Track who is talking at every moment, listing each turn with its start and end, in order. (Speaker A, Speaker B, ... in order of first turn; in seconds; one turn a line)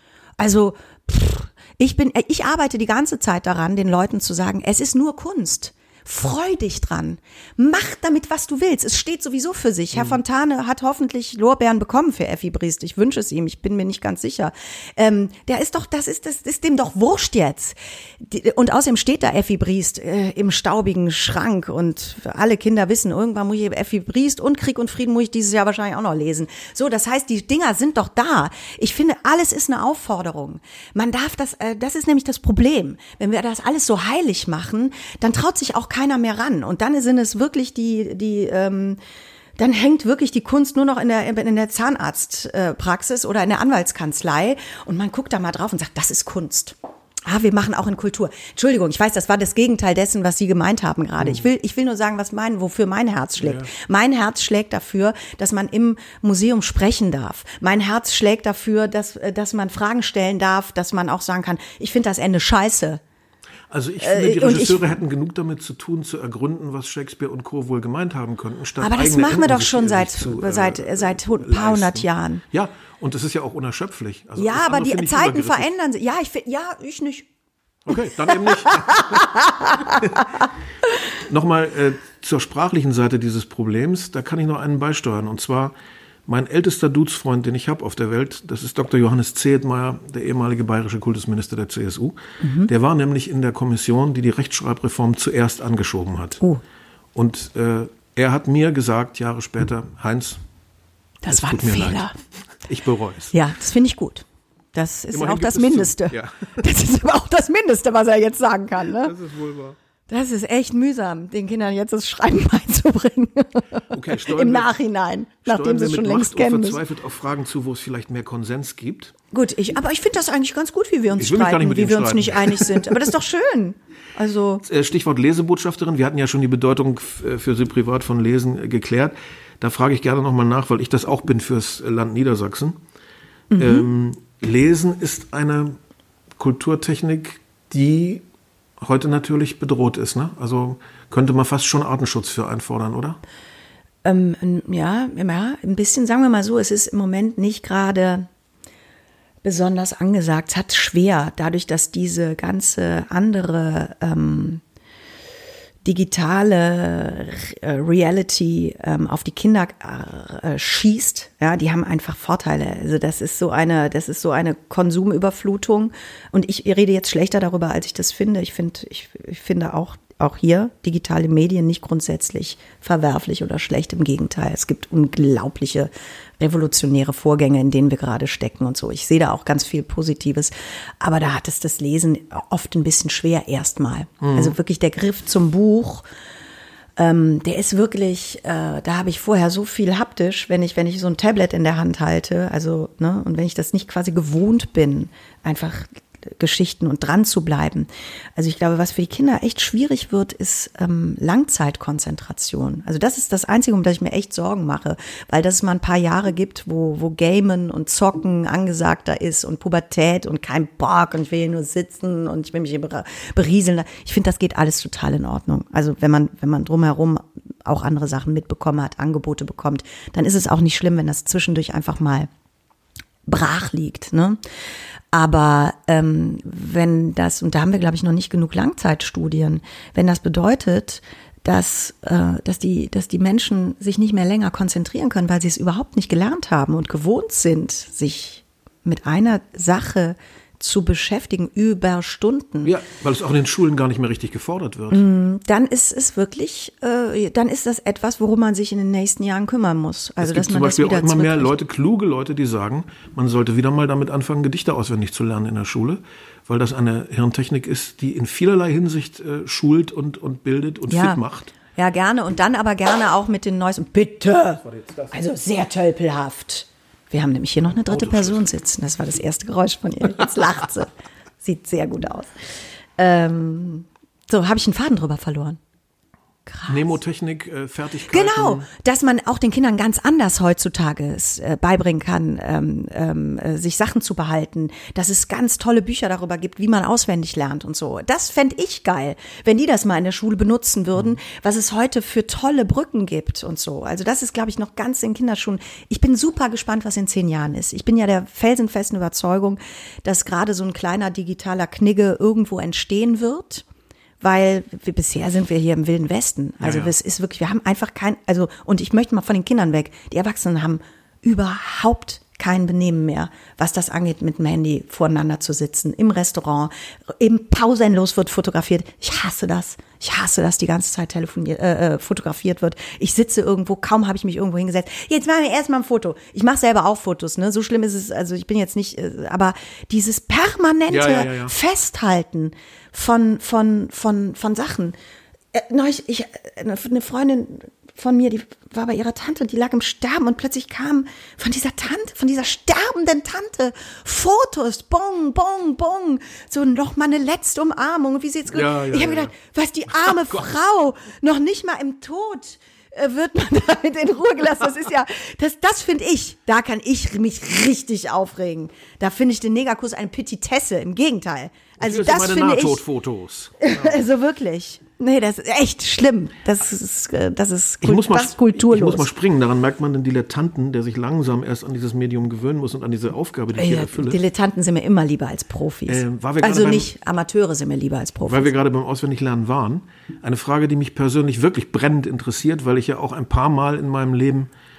Speaker A: 0.4-39.0
Speaker A: 39.6-63.0
Speaker B: 53.4-53.7
Speaker B: 63.7-75.7
Speaker A: 64.0-65.0
Speaker A: 68.8-72.4
Speaker A: 74.3-77.3
Speaker B: 77.8-80.2
Speaker A: 78.4-80.2
Speaker B: 81.2-85.7
Speaker B: 86.3-96.4
Speaker A: 92.4-92.7
Speaker B: 97.1-100.4
Speaker A: 101.2-102.2
Speaker B: 101.3-102.1
Speaker B: 102.6-103.3
Speaker A: 103.3-109.1
Speaker B: 105.1-106.6
Speaker B: 109.0-109.8
Speaker A: 110.1-116.8
Speaker B: 113.9-114.7
Speaker B: 115.4-119.1
Speaker A: 119.3-124.6
Speaker B: 121.2-123.1
Speaker B: 124.6-132.7
Speaker A: 133.5-133.9
Speaker B: 133.6-135.8
Speaker B: 136.4-138.2
Speaker B: 138.8-143.2
Speaker A: 144.0-148.3
Speaker A: 149.4-154.6
Speaker A: 155.8-186.0
Speaker B: 184.2-184.6
Speaker A: 187.0-222.3
Speaker A: 223.3-224.4
Speaker A: 225.1-242.7
Speaker B: 242.6-245.0
Speaker A: 244.9-251.6
Speaker B: 250.2-261.5
Speaker A: 260.9-261.2
Speaker A: 261.7-270.9
Speaker B: 264.6-265.1
Speaker B: 267.7-268.4
Speaker A: 271.4-272.3
Speaker A: 273.0-275.6
Speaker A: 276.4-276.9
Speaker B: 276.7-278.7
Speaker A: 278.1-303.6
Speaker A: 304.2-334.9
Speaker B: 306.6-306.9
Speaker B: 330.9-331.5
Speaker A: 335.5-362.8
Speaker B: 348.5-349.3
Speaker B: 350.0-350.4
Speaker B: 361.8-364.0
Speaker A: 363.6-369.1
Speaker B: 367.8-374.2
Speaker A: 373.5-378.5
Speaker B: 375.9-376.9
Speaker B: 378.3-384.5